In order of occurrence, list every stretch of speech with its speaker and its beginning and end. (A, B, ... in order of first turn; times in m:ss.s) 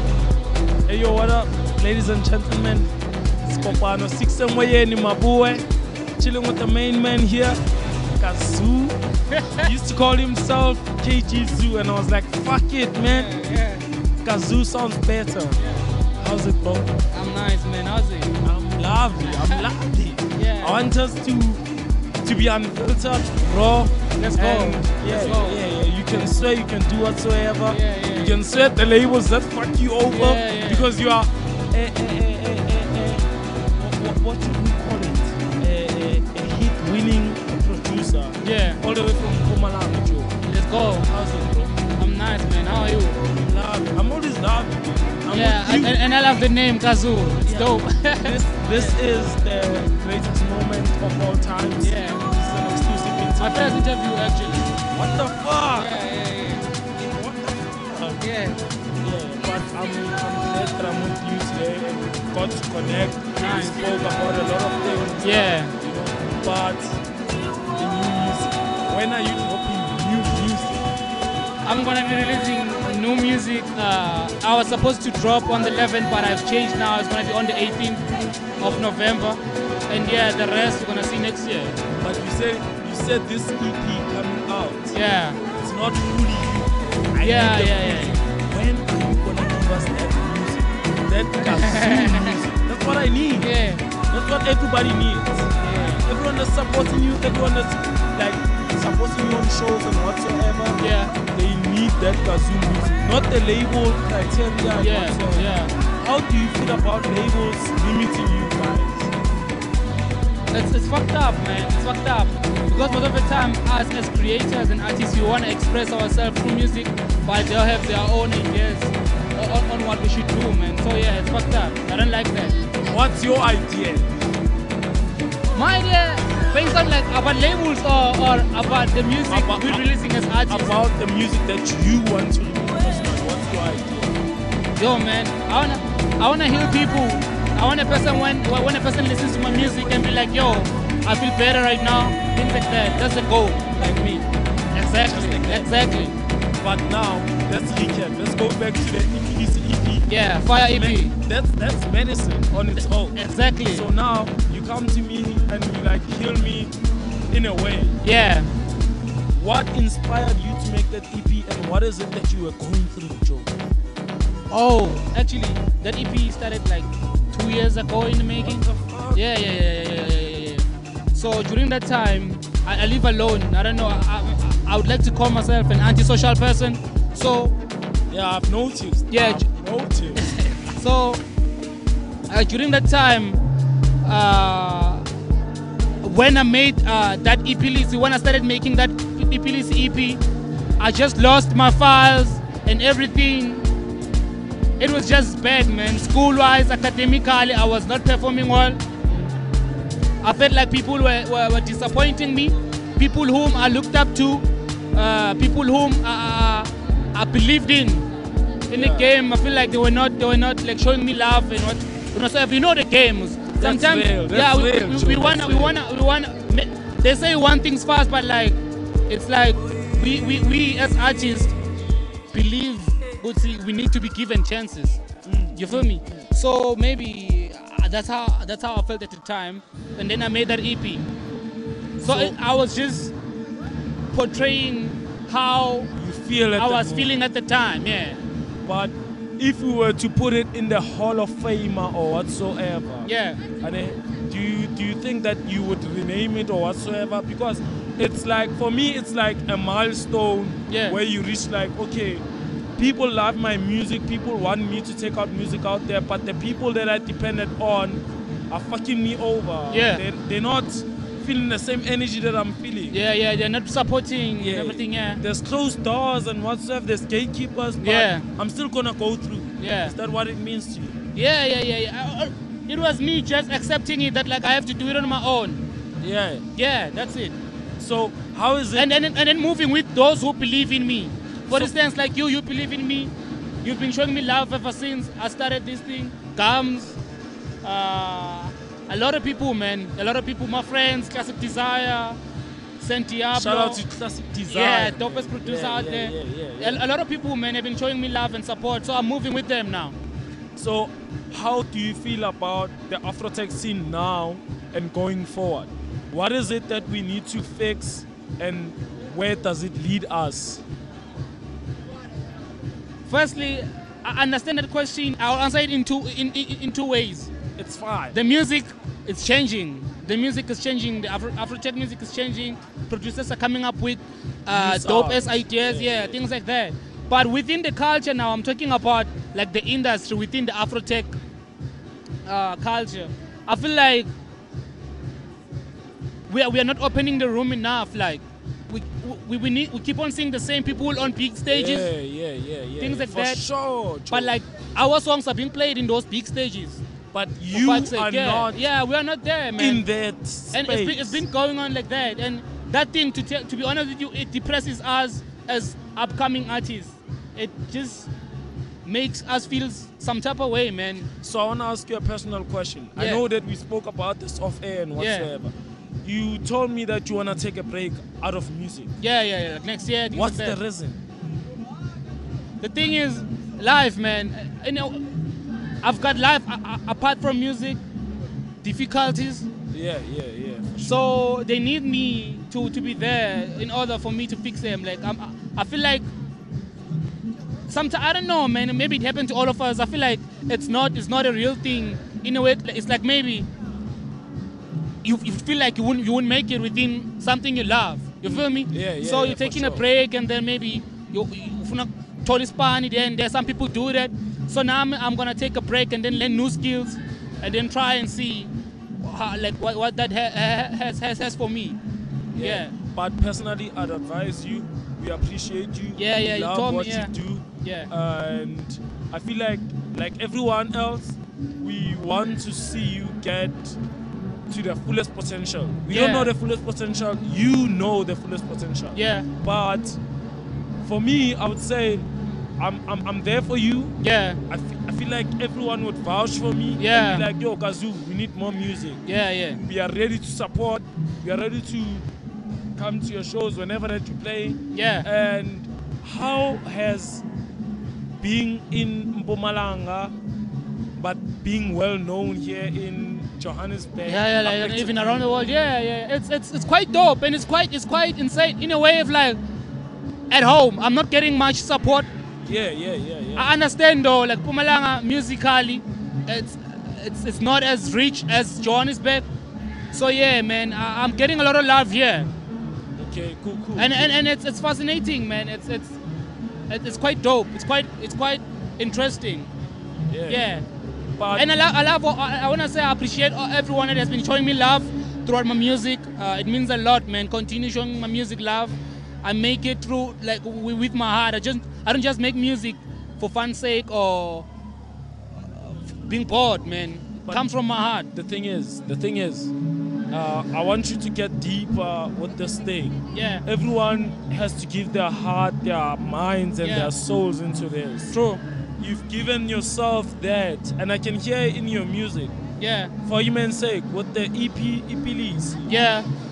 0:00.9-0:02.9 A
0:03.4-0:05.6 A
0:06.2-0:07.6 A
0:08.2-0:09.0 A
0:09.3-0:09.7 B
0:09.6-0:13.3 A
0:13.0-0:13.9 B
0:14.2-0:15.6 A
0:15.5-0:15.8 B
0:16.2-0:16.9 A
0:17.1-0:18.4 B
0:18.4-0:21.6 A
0:19.2-0:19.7 B
0:20.3-0:20.8 B
0:22.2-0:41.8 A
0:24.1-0:25.6 B
0:27.7-0:28.4 B
0:30.1-0:30.9 B
0:38.4-0:38.8 B
0:40.5-0:41.1 B
0:42.0-0:43.2 B
0:43.3-0:46.0 A
0:45.3-0:49.0 B
0:47.4-0:53.8 A
0:51.8-0:52.2 B
0:53.4-0:54.7 B
0:54.9-0:55.9 A
0:55.7-0:56.7 B
0:57.0-0:58.2 A
0:58.2-0:58.6 B
0:59.0-1:07.0 A
1:03.4-1:03.9 B
1:05.2-1:05.7 B
1:07.7-1:10.9 A
1:11.6-1:18.0 B
1:18.6-1:21.8 B
1:18.6-1:18.9 A
1:22.0-1:25.0 A
1:24.9-1:25.4 B
1:25.6-1:33.5 A
1:27.2-1:28.2 B
1:31.4-1:32.4 B
1:33.4-1:33.8 B
1:34.1-1:49.1 A
1:35.6-1:36.0 B
1:40.8-1:41.1 B
1:44.6-1:45.7 B
1:50.5-2:02.6 B
2:02.8-2:04.4 A
2:05.5-2:10.8 B
2:09.3-2:09.9 A
2:10.5-2:14.2 A
2:14.8-2:23.7 B
2:23.7-2:24.3 A
2:24.7-2:26.2 B
2:24.9-2:25.9 A
2:26.6-2:30.1 A
2:30.1-2:31.1 B
2:30.6-2:36.7 A
2:33.1-2:33.9 B
2:37.3-2:38.0 A
2:38.0-2:38.5 B
2:39.3-2:43.5 A
2:44.5-2:57.6 B
2:48.4-2:49.2 A
2:58.1-3:00.2 A
2:59.1-2:59.5 B
3:00.1-3:01.2 B
3:02.3-3:03.4 B
3:04.0-3:05.1 B
3:06.0-3:10.2 B
3:10.8-3:13.7 B
3:14.8-3:18.8 B
3:20.2-3:28.0 B
3:28.7-3:41.5 B
3:28.7-3:29.2 A
3:33.6-3:35.8 A
3:42.3-3:45.0 B
3:45.2-3:46.3 A
3:45.5-3:51.1 B
3:52.0-3:52.4 A
3:52.0-3:53.1 B
3:54.1-3:55.9 B
3:55.9-3:57.2 A
3:56.5-3:58.2 B
3:58.6-4:03.1 A
4:03.0-4:03.4 B
4:03.6-4:12.2 A
4:10.7-4:11.0 B
4:12.8-4:23.0 A
4:19.7-4:20.0 B
4:22.9-4:25.2 B
4:24.4-4:31.0 A
4:27.8-4:28.3 B
4:29.6-4:30.0 B
4:31.1-4:35.6 B
4:36.0-4:36.5 A
4:36.5-4:37.4 B
4:37.8-4:38.9 A
4:38.7-4:47.0 B
4:41.5-4:41.7 A
4:47.6-4:52.2 B
4:52.8-4:53.8 B
4:53.3-4:56.9 A
4:54.5-5:00.0 B
5:00.6-5:10.6 A
5:13.0-5:17.3 B
5:17.6-5:18.2 A
5:18.1-5:31.1 B
5:24.5-5:26.2 A
5:32.2-5:34.1 B
5:36.3-5:41.9 B
5:41.5-5:44.4 A
5:42.8-5:43.4 B
5:44.1-5:46.8 B
5:47.1-5:48.7 A
5:47.5-5:49.8 B
5:49.6-5:51.2 A
5:50.5-5:58.1 B
5:58.8-6:01.1 B
6:01.2-6:08.9 A
6:03.0-6:03.2 B
6:05.0-6:05.3 B
6:09.0-6:10.6 B
6:10.1-6:11.0 A
6:12.6-6:15.1 B
6:15.8-6:17.8 B
6:18.6-6:19.5 B
6:19.7-6:21.0 A
6:20.8-6:26.1 B
6:27.7-6:33.5 B
6:35.0-6:51.8 B
6:38.2-6:39.9 A
6:52.3-7:03.8 A
6:52.4-6:52.7 B
6:56.0-6:57.9 B
7:04.5-7:10.0 A
7:05.9-7:06.3 B
7:08.9-7:09.3 B
7:10.8-7:12.0 A
7:12.6-7:14.0 A
7:14.0-7:14.4 B
7:14.5-7:19.0 A
7:16.8-7:17.3 B
7:19.0-7:19.6 B
7:19.6-7:22.0 A
7:22.8-7:27.2 A
7:24.7-7:25.1 B
7:28.2-7:30.1 A
7:31.0-7:35.5 A
7:34.0-7:39.4 B
7:40.3-7:42.1 B
7:42.4-7:43.5 A
7:43.4-7:49.2 B
7:49.9-7:52.3 B
7:53.0-7:54.2 A
7:53.8-7:56.0 B
7:56.7-7:59.5 B
8:00.1-8:00.5 A
8:00.3-8:00.6 B
8:01.2-8:01.5 A
8:01.3-8:14.5 B
8:15.4-8:18.1 B
8:17.2-8:17.5 A
8:18.1-8:19.5 A
8:20.1-8:28.2 A
8:23.1-8:23.4 B
8:26.6-8:26.9 B
8:28.1-8:28.4 B
8:28.8-8:32.3 A
8:32.6-8:32.9 B
8:33.0-8:35.7 A
8:35.7-8:36.1 B